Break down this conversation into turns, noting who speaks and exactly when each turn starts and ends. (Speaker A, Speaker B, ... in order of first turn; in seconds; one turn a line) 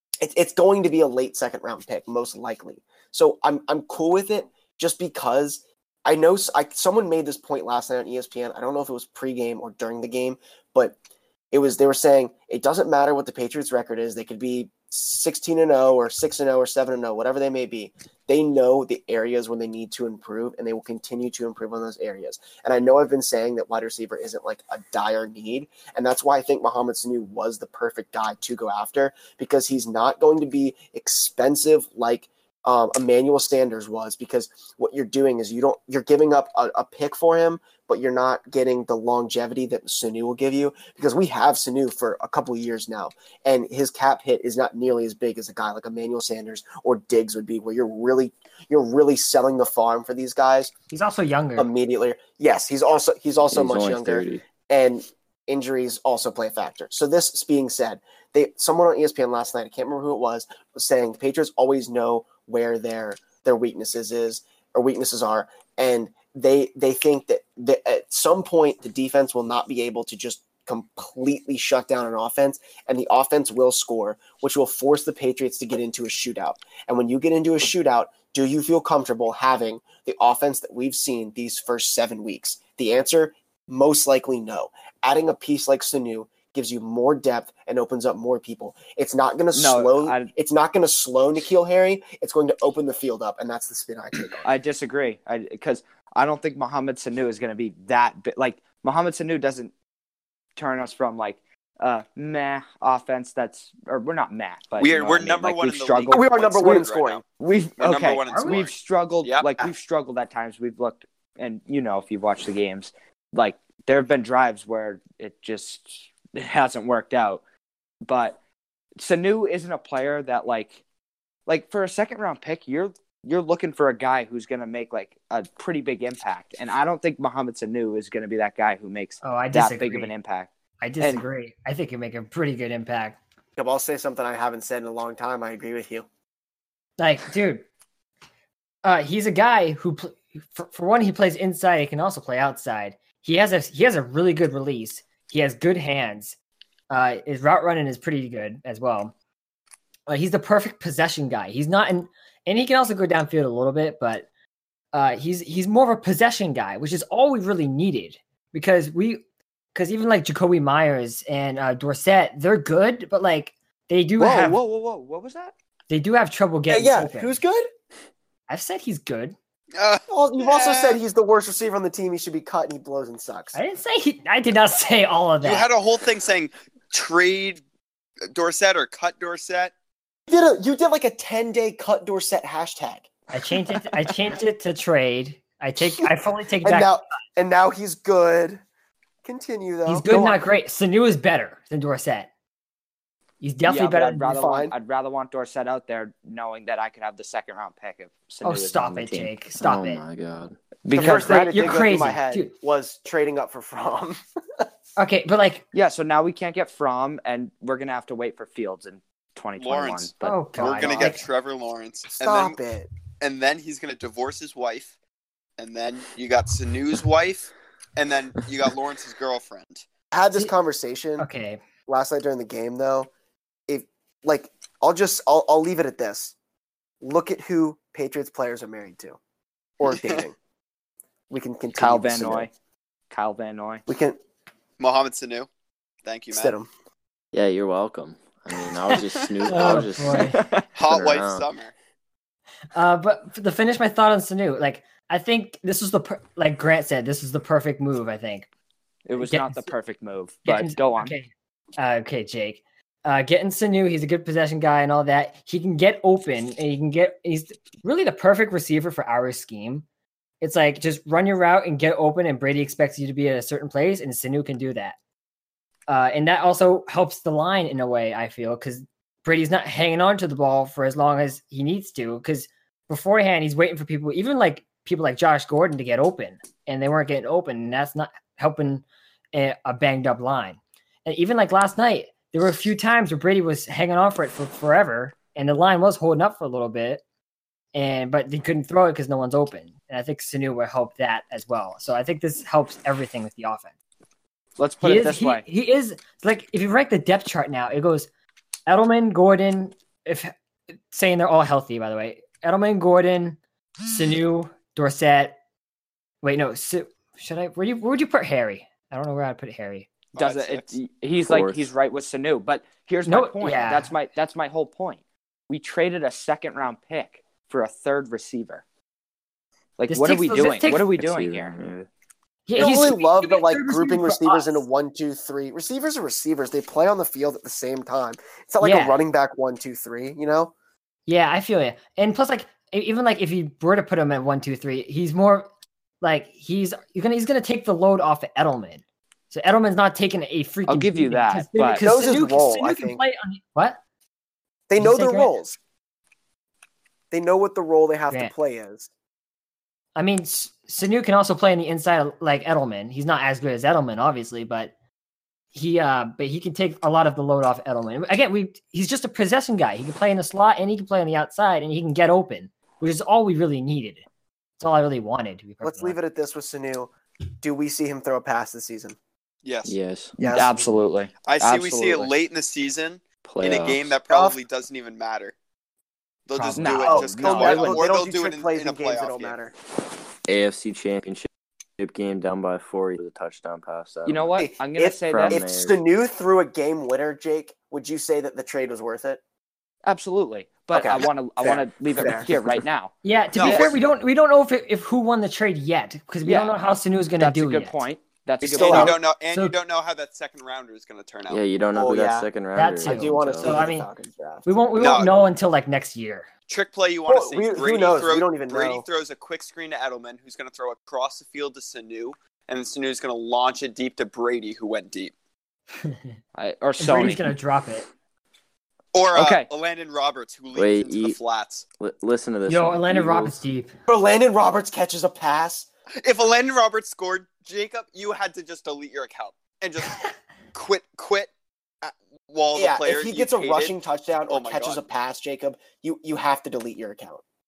Speaker A: 0.2-10.9
Speaker A: 11.5-50.7
Speaker B: 50.9-51.7
Speaker A: 51.6-94.5
Speaker C: 53.5-54.4
Speaker D: 89.5-90.3
Speaker D: 94.4-99.7
Speaker D: 100.5-117.4
Speaker E: 104.8-107.2
Speaker A: 106.1-107.2
Speaker E: 107.8-109.5
Speaker B: 108.3-108.6
Speaker D: 118.0-118.4
Speaker D: 119.0-120.8
Speaker D: 121.5-131.2
Speaker B: 129.2-130.1
Speaker B: 130.8-133.2
Speaker A: 133.6-136.1
Speaker B: 137.0-137.6
Speaker B: 138.8-146.3
Speaker B: 146.9-149.1
Speaker B: 150.1-154.2
Speaker B: 154.9-159.2
Speaker B: 159.7-164.6
Speaker D: 164.2-165.5
Speaker B: 165.9-167.3
Speaker A: 166.7-167.7
Speaker B: 168.5-169.3
Speaker E: 169.7-171.0
Speaker A: 170.1-173.6
Speaker B: 173.5-175.7
Speaker E: 175.4-177.6
Speaker E: 178.3-179.7
Speaker A: 180.3-183.1
Speaker B: 183.3-186.9
Speaker A: 185.8-186.1
Speaker A: 186.6-188.6
Speaker A: 189.2-190.1
Speaker B: 189.8-192.3
Speaker D: 190.1-190.3
Speaker B: 193.4-194.4
Speaker D: 193.6-199.3
Speaker A: 194.3-194.7
Speaker B: 198.4-200.0
Speaker C: 199.6-200.6
Speaker D: 200.8-201.7
Speaker B: 200.9-202.5
Speaker A: 200.9-204.6
Speaker B: 205.0-205.6
Speaker D: 205.7-210.9
Speaker E: 209.6-212.6
Speaker B: 210.2-211.2
Speaker A: 210.6-211.1
Speaker A: 212.1-212.9
Speaker E: 213.2-214.9
Speaker E: 215.6-219.8
Speaker A: 220.1-221.2
Speaker B: 221.2-221.6
Speaker A: 221.9-223.1
Speaker A: 223.7-226.3
Speaker A: 227.0-229.2
Speaker A: 229.8-230.3
Speaker E: 229.9-230.2
Speaker A: 231.3-232.5
Speaker D: 231.8-232.5
Speaker D: 233.1-233.8
Speaker A: 233.9-234.2
Speaker E: 234.8-235.5
Speaker E: 236.1-236.5
Speaker A: 236.3-236.7
Speaker C: 237.3-241.5
Speaker B: 239.4-240.4
Speaker D: 240.1-240.6
Speaker E: 240.7-241.7
Speaker B: 242.7-248.5
Speaker D: 249.1-251.2
Speaker B: 249.2-249.7
Speaker B: 250.4-259.8
Speaker B: 260.4-264.9
Speaker B: 265.9-287.0
Speaker B: 287.7-293.7
Speaker D: 294.6-295.4
Speaker B: 294.8-298.1
Speaker B: 298.7-300.3
Speaker B: 300.9-305.4
Speaker B: 306.2-309.9
Speaker E: 310.1-310.7
Speaker D: 310.1-318.6
Speaker C: 311.2-311.7
Speaker B: 313.1-313.9
Speaker D: 319.8-321.5
Speaker B: 319.9-320.9
Speaker C: 320.9-321.9
Speaker B: 322.5-324.6
Speaker A: 322.6-330.5
Speaker B: 328.6-329.0
Speaker B: 331.1-335.5
Speaker B: 336.0-343.8
Speaker D: 340.7-341.8
Speaker A: 341.8-343.0
Speaker A: 344.7-345.6
Speaker B: 344.8-345.3
Speaker A: 347.1-348.9
Speaker B: 349.9-354.7
Speaker B: 355.5-364.0
Speaker B: 364.6-366.0
Speaker A: 365.6-369.0
Speaker E: 369.4-369.7
Speaker C: 369.6-370.1
Speaker A: 370.2-370.6
Speaker D: 370.3-372.1
Speaker E: 371.2-375.3
Speaker C: 373.2-374.0
Speaker A: 374.1-374.4
Speaker E: 376.3-379.4
Speaker D: 376.4-377.8
Speaker A: 376.8-379.5
Speaker C: 380.3-384.4
Speaker D: 384.1-385.4
Speaker A: 384.4-389.2
Speaker C: 385.1-385.8
Speaker D: 389.9-393.6
Speaker A: 390.7-392.6
Speaker B: 393.0-397.8
Speaker E: 393.3-393.7
Speaker D: 396.2-396.5
Speaker D: 397.2-399.0
Speaker A: 398.4-398.9
Speaker E: 398.5-401.4
Speaker C: 401.3-403.6
Speaker A: 401.7-402.3
Speaker B: 402.5-403.9
Speaker A: 402.8-404.5
Speaker B: 404.4-406.3
Speaker E: 404.8-405.1
Speaker E: 406.5-415.1
Speaker A: 407.1-408.8
Speaker B: 415.8-416.1
Speaker D: 416.4-417.3
Speaker B: 416.8-417.9
Speaker E: 418.9-421.6
Speaker D: 419.1-419.5
Speaker C: 420.5-421.2
Speaker C: 421.8-423.4
Speaker B: 422.5-423.7
Speaker A: 423.9-425.7
Speaker E: 426.0-430.0
Speaker B: 429.8-430.1
Speaker E: 430.5-431.3
Speaker E: 431.8-433.8
Speaker A: 432.5-437.2
Speaker E: 434.3-434.8